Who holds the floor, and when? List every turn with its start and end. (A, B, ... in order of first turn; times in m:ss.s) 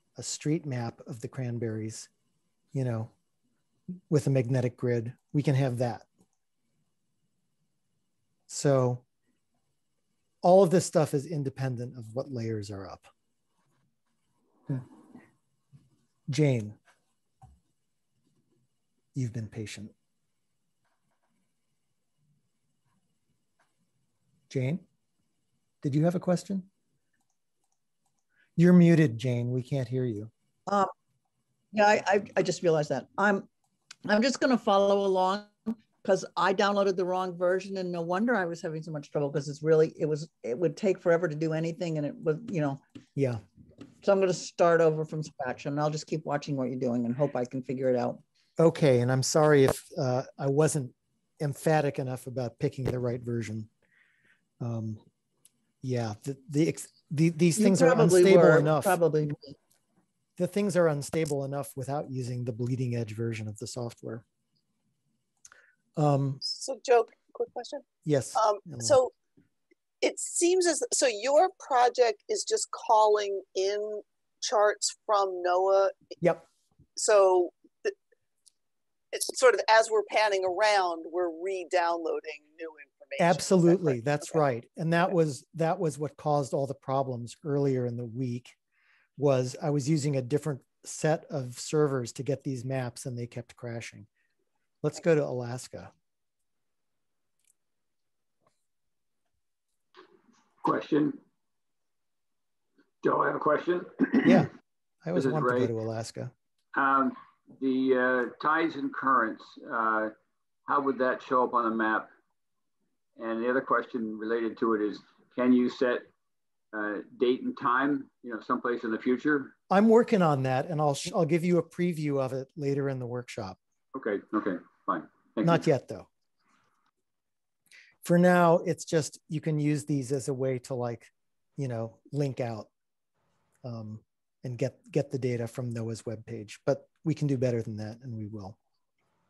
0:00.2-0:02.1 A
0:02.7-0:03.1 A
0:04.1-0:06.1 A
0:08.5-0:09.0 A
0:10.4-0:13.1 A
0:16.3-0:16.8 A
0:19.2-0:19.9 A
0:24.5-0:24.8 A
0:25.8-0:26.7 A
0:28.6-0:30.3 A
0:31.7-0:33.5 B
0:34.1-0:42.8 B
0:43.2-0:43.4 A
0:44.0-0:48.2 B
0:48.6-0:53.7 A
0:54.6-0:55.0 A
0:55.8-0:59.0 A
0:57.6-0:59.6 B
1:00.4-1:04.2 A
1:06.0-1:06.4 A
1:06.4-1:09.1 C
1:08.0-1:09.0 A
1:10.0-1:15.9 C
1:17.0-1:17.9 C
1:19.1-1:24.0 C
1:23.2-1:28.6 A
1:29.2-1:34.1 A
1:34.8-1:35.9 A
1:40.6-1:41.2 D
1:43.0-1:44.5 D
1:44.2-1:44.5 A
1:45.0-1:46.3 A
1:45.2-1:45.7 D
1:46.7-1:50.1 D
1:50.7-1:52.1 D
1:53.2-1:56.1 D
1:56.7-1:59.5 D
1:59.7-2:03.6 A
2:03.9-2:05.6 D
2:05.4-2:06.1 A
2:08.0-2:12.7 A
2:13.6-2:18.6 A